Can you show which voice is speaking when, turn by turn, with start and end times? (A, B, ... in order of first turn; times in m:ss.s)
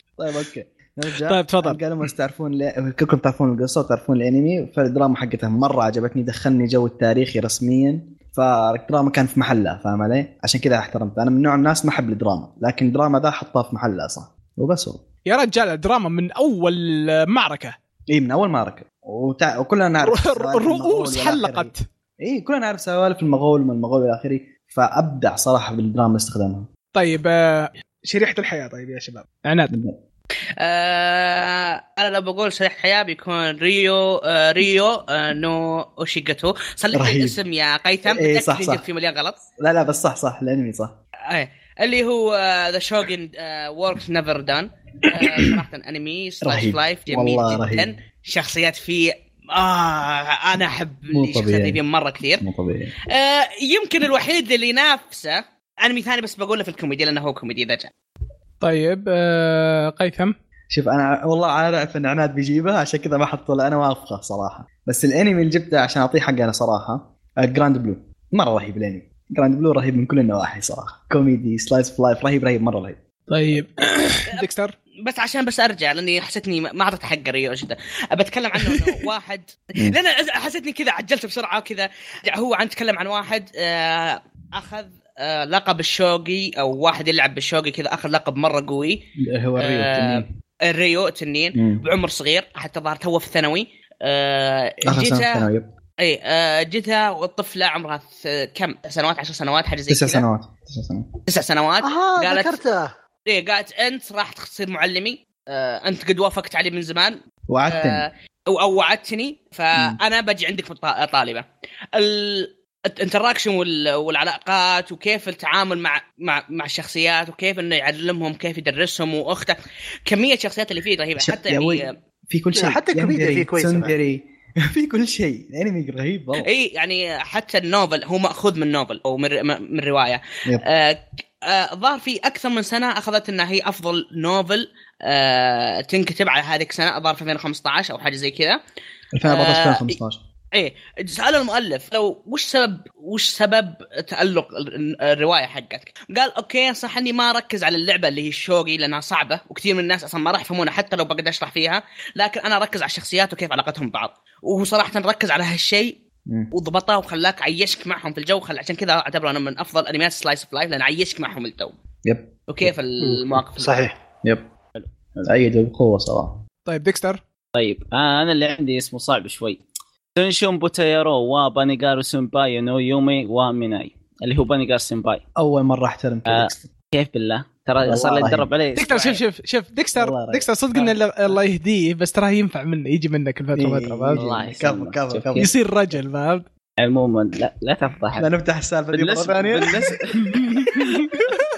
0:00.2-0:15.0 A
0:01.3-0:01.8 B
0:15.3-0:17.8 B
0:18.1-0:26.7 A
0:20.0-0:21.8 B
0:27.0-0:29.7 B
0:29.7-0:30.0 A
0:30.6-0:39.4 C
0:36.9-0:37.4 A
0:38.1-0:38.8 A
0:39.6-0:40.9 A
0:41.3-0:52.4 C
0:45.2-0:45.6 A
0:46.4-0:47.9 A
0:51.1-0:51.8 A
0:52.4-0:52.9 A
0:53.1-0:57.9 C
0:58.6-1:00.3 B
1:00.7-1:13.0 A
1:13.3-1:14.7 B
1:15.0-1:29.0 C
1:29.2-1:30.3 A
1:29.6-1:35.5 C
1:31.6-1:31.8 A
1:34.9-1:35.7 A
1:36.0-1:40.2 C
1:39.9-1:41.1 A
1:41.3-1:42.6 C
1:41.8-1:42.9 D
1:43.3-1:47.2 C
1:47.5-1:48.1 A
1:47.7-2:01.9 C
2:01.2-2:06.5 A
2:02.6-2:03.9 D
2:06.4-2:18.6 C
2:19.1-2:20.2 A
2:19.2-2:20.0 C
2:20.5-2:36.0 C
2:36.5-2:41.8 C
2:42.0-2:42.7 A
2:42.5-2:43.7 C
2:43.0-2:44.0 D
2:45.2-2:46.4 A
2:46.7-2:47.2 B
2:47.6-2:49.6 E
2:50.2-2:55.2 E
2:55.4-2:56.7 A
2:56.3-2:59.2 E
2:57.8-2:58.5 A
2:58.8-3:04.2 B
3:00.0-3:00.5 A
3:03.6-3:05.5 A
3:04.1-3:05.5 E
3:05.4-3:06.5 B
3:06.8-3:08.3 E
3:08.2-3:10.1 A
3:08.9-3:11.2 E